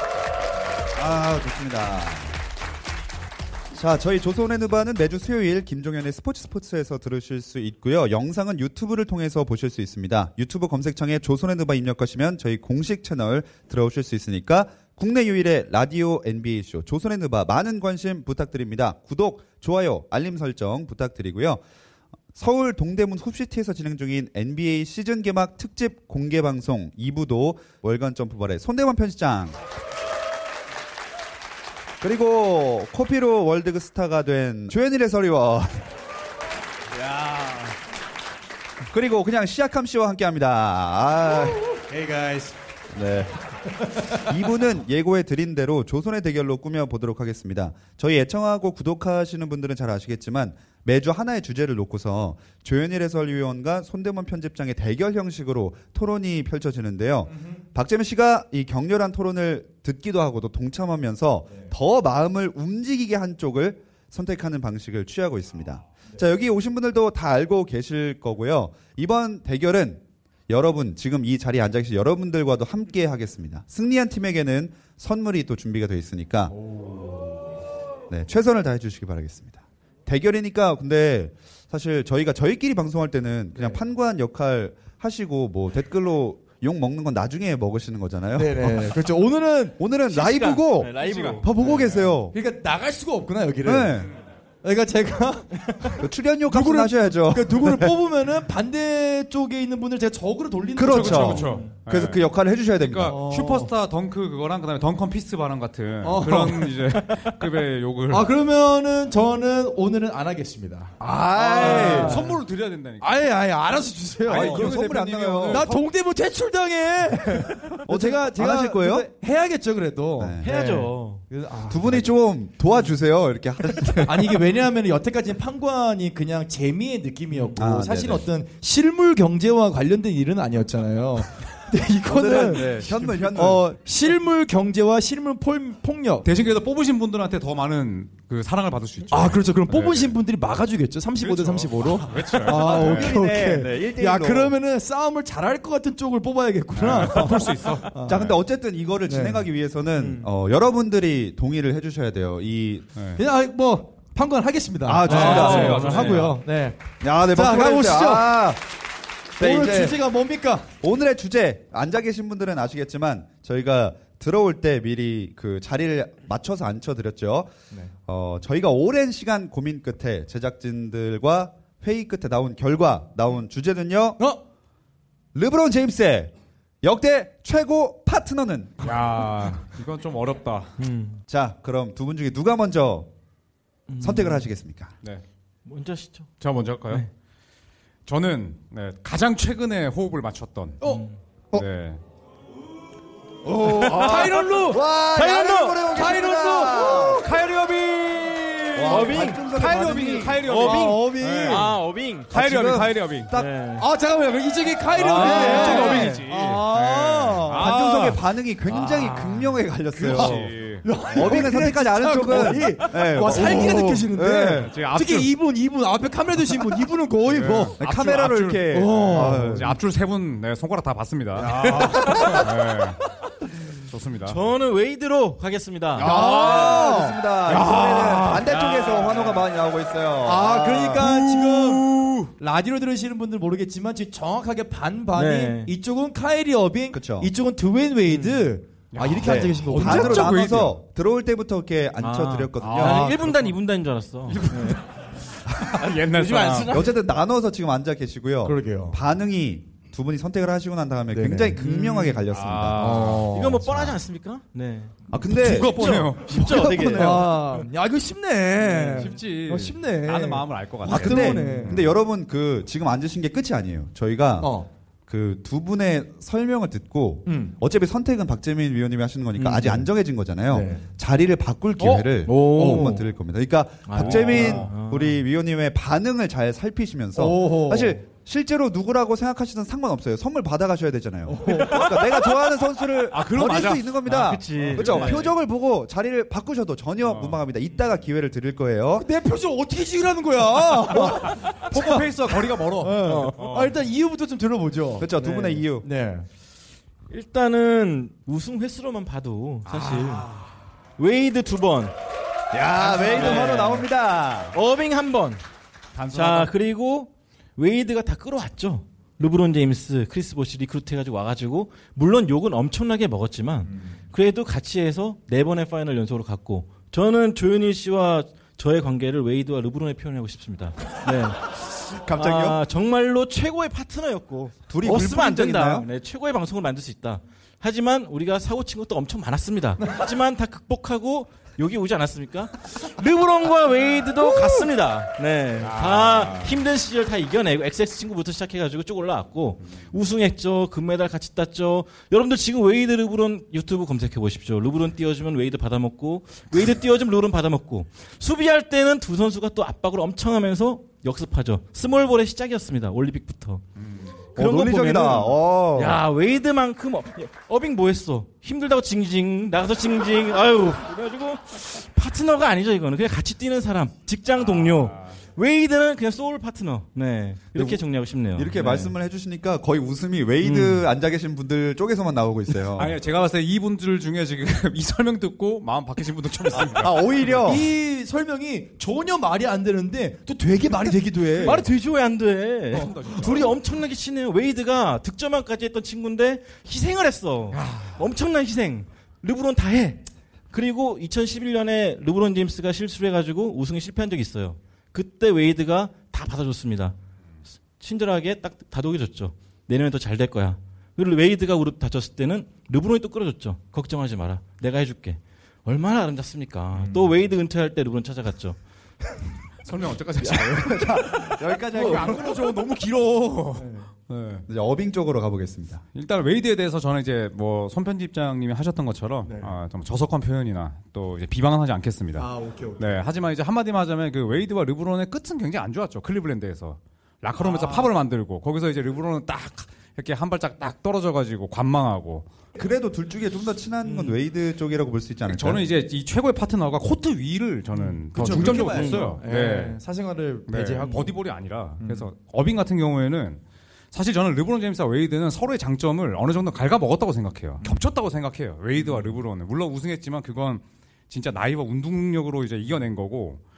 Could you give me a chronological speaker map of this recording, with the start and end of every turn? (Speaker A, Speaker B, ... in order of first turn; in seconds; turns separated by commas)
Speaker A: 0.9-2.4, Speaker A: 3.7-21.6, Speaker A: 22.3-29.6, Speaker A: 32.0-35.9, Speaker B: 37.0-37.7, Speaker A: 38.9-41.6, Speaker B: 41.9-42.5, Speaker A: 42.9-43.3, Speaker A: 44.1-76.5, Speaker B: 57.3-57.6, Speaker A: 78.1-88.9, Speaker B: 88.3-89.8, Speaker A: 89.8-92.3, Speaker C: 90.1-91.9, Speaker D: 91.0-91.4, Speaker B: 92.3-94.0, Speaker A: 93.6-94.1, Speaker B: 94.6-101.6, Speaker A: 96.0-98.0, Speaker A: 100.8-103.2, Speaker D: 100.9-102.2, Speaker D: 102.8-108.3, Speaker B: 103.0-103.7, Speaker B: 106.0-107.0, Speaker B: 108.1-112.4, Speaker A: 111.3-112.2, Speaker D: 111.4-113.3, Speaker B: 113.0-114.8, Speaker D: 114.2-115.8, Speaker A: 114.3-115.7, Speaker B: 115.4-122.1, Speaker A: 117.8-119.1, Speaker A: 120.2-120.5, Speaker C: 120.4-121.2, Speaker A: 121.7-124.4, Speaker B: 124.0-136.3, Speaker A: 127.5-128.3, Speaker A: 132.1-133.6, Speaker D: 136.2-140.2, Speaker B: 139.1-148.3, Speaker D: 141.2-143.1, Speaker A: 142.4-144.5, Speaker D: 146.7-148.3, Speaker A: 148.1-152.9, Speaker B: 149.1-149.4, Speaker B: 150.0-150.2, Speaker D: 152.9-153.2, Speaker B: 153.2-158.4, Speaker A: 154.8-156.2, Speaker D: 155.1-156.4, Speaker C: 155.2-156.2, Speaker A: 157.0-158.6, Speaker A: 159.4-160.0, Speaker B: 159.4-160.7, Speaker A: 160.8-167.5, Speaker A: 168.1-174.2, Speaker A: 175.3-178.9, Speaker D: 178.8-180.8, Speaker C: 180.8-181.2, Speaker A: 181.3-183.1, Speaker C: 183.9-184.4, Speaker A: 184.0-184.9, Speaker C: 185.7-186.3, Speaker D: 186.4-187.1, Speaker D: 188.1-190.8, Speaker B: 190.8-191.6, Speaker C: 190.8-191.2, Speaker D: 191.5-192.0, Speaker A: 193.4-197.2, Speaker C: 193.7-195.9, Speaker B: 193.8-194.8, Speaker B: 195.9-197.2, Speaker D: 197.0-201.7, Speaker A: 198.7-200.5, Speaker C: 198.9-199.4, Speaker C: 200.4-202.3, Speaker B: 200.5-201.7, Speaker D: 202.3-203.3, Speaker A: 202.3-203.5, Speaker C: 203.3-203.8, Speaker B: 203.8-207.8, Speaker D: 204.9-211.5, Speaker C: 205.0-206.3, Speaker A: 207.5-210.5, Speaker B: 210.1-217.8, Speaker A: 211.1-214.7, Speaker D: 214.5-215.3, Speaker D: 217.2-223.0, Speaker A: 217.8-219.7, Speaker B: 218.7-219.7, Speaker B: 221.3-222.4, Speaker D: 223.9-224.4, Speaker C: 224.2-226.1, Speaker B: 226.0-229.1, Speaker A: 226.0-231.1, Speaker B: 230.2-231.9, Speaker D: 231.0-232.3, Speaker B: 232.4-240.5, Speaker C: 235.1-235.7, Speaker A: 236.9-237.3, Speaker C: 238.1-238.4, Speaker D: 238.9-240.8, Speaker A: 239.2-243.1, Speaker C: 242.0-244.8, Speaker D: 242.6-243.4, Speaker D: 245.6-246.8, Speaker C: 245.8-246.9, Speaker A: 246.7-252.8, Speaker B: 248.4-249.0, Speaker B: 251.1-251.7, Speaker C: 251.6-252.2, Speaker D: 252.3-253.8, Speaker B: 252.7-253.6, Speaker C: 253.3-257.1, Speaker A: 255.1-257.3, Speaker B: 255.3-256.0, Speaker D: 255.4-256.7, Speaker B: 256.8-261.7, Speaker D: 258.6-261.9, Speaker A: 260.9-264.5, Speaker B: 264.4-264.7, Speaker A: 265.1-289.1, Speaker B: 267.2-267.5, Speaker C: 269.4-269.8, Speaker B: 270.5-270.9, Speaker C: 272.2-273.0, Speaker B: 272.3-273.0, Speaker C: 273.9-275.2, Speaker B: 274.3-274.6, Speaker B: 277.1-278.0, Speaker B: 281.3-282.2, Speaker D: 283.1-283.9, Speaker C: 284.0-285.3, Speaker B: 284.6-285.1, Speaker D: 287.0-287.4, Speaker B: 288.9-292.1, Speaker D: 290.9-293.8, Speaker B: 292.8-296.3, Speaker C: 293.1-293.6, Speaker A: 295.0-295.9, Speaker C: 297.1-300.3, Speaker D: 299.6-300.5, Speaker C: 301.0-301.9, Speaker A: 302.5-304.6, Speaker B: 303.0-303.4, Speaker C: 303.0-303.8, Speaker C: 304.5-305.4, Speaker D: 305.9-306.5, Speaker C: 306.1-353.6, Speaker A: 322.0-322.6, Speaker A: 324.7-325.9, Speaker D: 335.6-336.6, Speaker D: 353.8-354.1, Speaker A: 354.4-356.0, Speaker C: 354.4-368.9, Speaker D: 364.4-365.1, Speaker A: 368.4-373.0, Speaker C: 370.4-370.8, Speaker D: 372.8-377.3, Speaker A: 376.6-377.6, Speaker B: 377.4-381.6, Speaker C: 381.4-396.9, Speaker D: 382.7-383.6, Speaker D: 387.5-388.0, Speaker C: 397.8-408.6, Speaker D: 409.6-414.4, Speaker A: 410.4-412.5, Speaker B: 413.6-413.9, Speaker A: 414.5-415.8, Speaker D: 415.9-432.3, Speaker B: 419.2-419.5, Speaker B: 422.1-422.8, Speaker B: 427.4-427.9, Speaker A: 432.5-435.6, Speaker D: 435.3-439.8, Speaker B: 437.8-441.2, Speaker A: 438.2-439.0, Speaker C: 438.4-439.1, Speaker D: 440.5-453.4